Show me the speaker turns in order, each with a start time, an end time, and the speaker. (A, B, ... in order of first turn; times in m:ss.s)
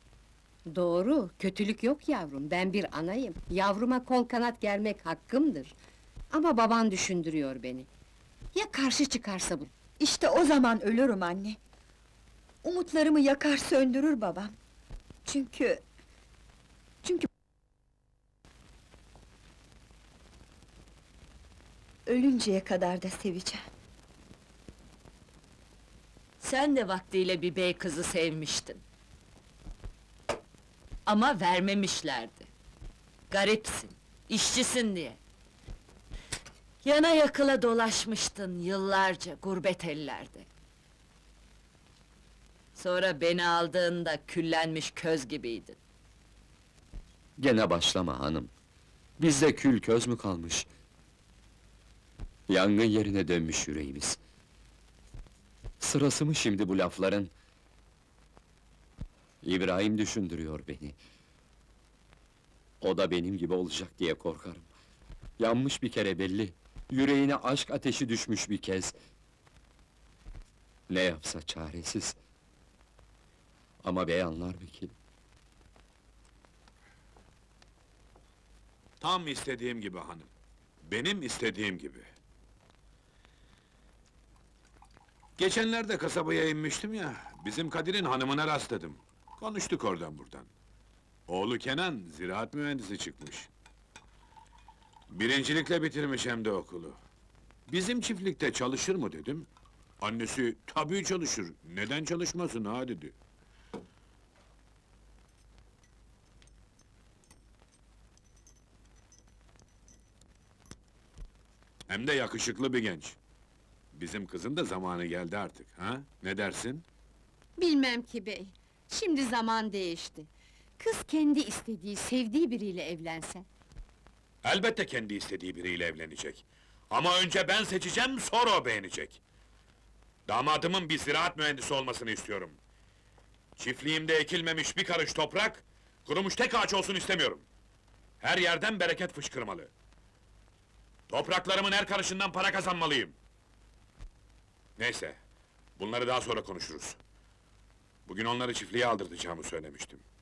0:00.7-0:05.7 A
0:06.3-0:07.9 A
0:08.5-0:09.7 A
0:10.0-0:11.6 B
0:12.6-0:14.5 B
0:15.2-0:15.8 B
0:22.1-0:23.7 B
0:26.4-0:28.8 C
0:31.1-0:32.5 C
0:33.3-0:35.2 C
0:36.8-0:40.5 C
0:42.8-0:45.8 C
0:47.4-0:48.5 D
0:49.2-0:50.7 D
0:52.5-0:54.2 D
0:55.8-0:57.3 D
0:59.4-1:01.0 D
1:02.8-1:04.7 D
1:05.4-1:08.9 D
1:10.9-1:12.2 D
1:13.8-1:14.9 D
1:19.0-1:20.3 E
1:20.8-1:22.1 E
1:25.4-1:30.5 E
1:31.3-1:33.5 E
1:35.1-1:37.0 E
1:37.7-1:39.5 E
1:40.0-1:43.1 E
1:51.9-1:53.2 E
1:53.9-1:56.8 E
1:57.6-2:03.5 A
2:04.4-2:09.2 E
2:10.3-2:12.6 E
2:13.6-2:17.4 E
2:18.2-2:19.7 E
2:21.1-2:23.1 E
2:24.8-2:25.2 E
2:25.8-2:27.0 E
2:28.1-2:30.0 E